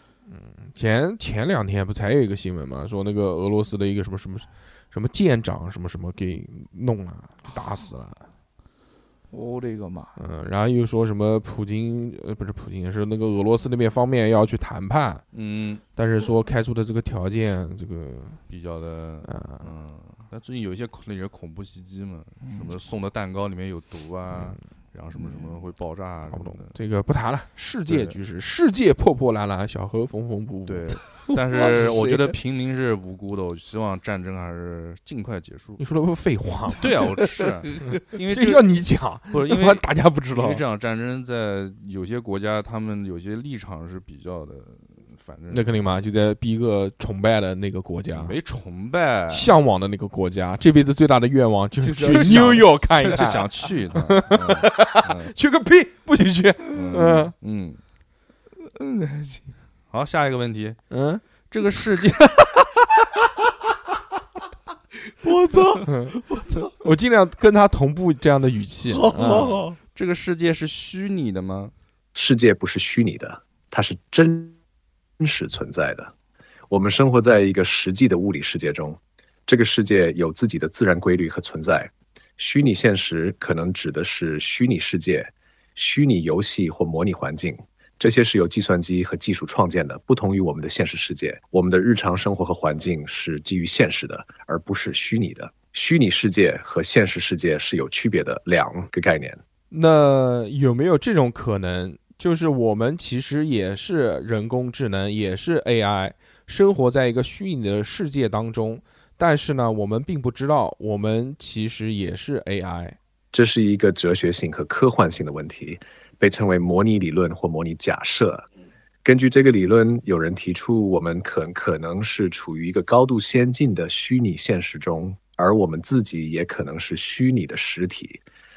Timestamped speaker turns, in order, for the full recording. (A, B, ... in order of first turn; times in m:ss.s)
0:00.3-0:08.2 A
0:09.3-0:10.2 B
0:10.2-0:15.2 A
0:15.3-0:15.8 C
0:16.0-0:18.4 A
0:18.5-0:26.8 C
0:19.2-0:19.7 A
0:24.3-0:24.6 A
0:25.2-0:25.5 B
0:26.3-0:31.0 A
0:27.9-0:28.2 C
0:30.7-0:35.8 C
0:31.3-0:32.3 B
0:35.8-0:37.1 A
0:36.8-0:45.8 C
0:38.3-0:40.6 A
0:45.5-0:48.4 A
0:48.1-0:49.5 C
0:49.3-0:57.3 A
0:51.8-0:52.7 B
0:51.9-0:55.3 C
0:56.7-0:57.8 C
0:58.6-0:59.6 B
0:59.9-1:00.8 C
1:00.9-1:01.2 A
1:01.5-1:02.6 C
1:05.2-1:06.7 B
1:05.9-1:09.6 A
1:08.9-1:09.8 B
1:09.3-1:11.7 C
1:12.2-1:14.6 D
1:15.2-1:16.1 D
1:16.7-1:39.4 D
1:39.7-1:53.0 A
1:53.3-1:58.5 D
1:59.0-2:08.2 D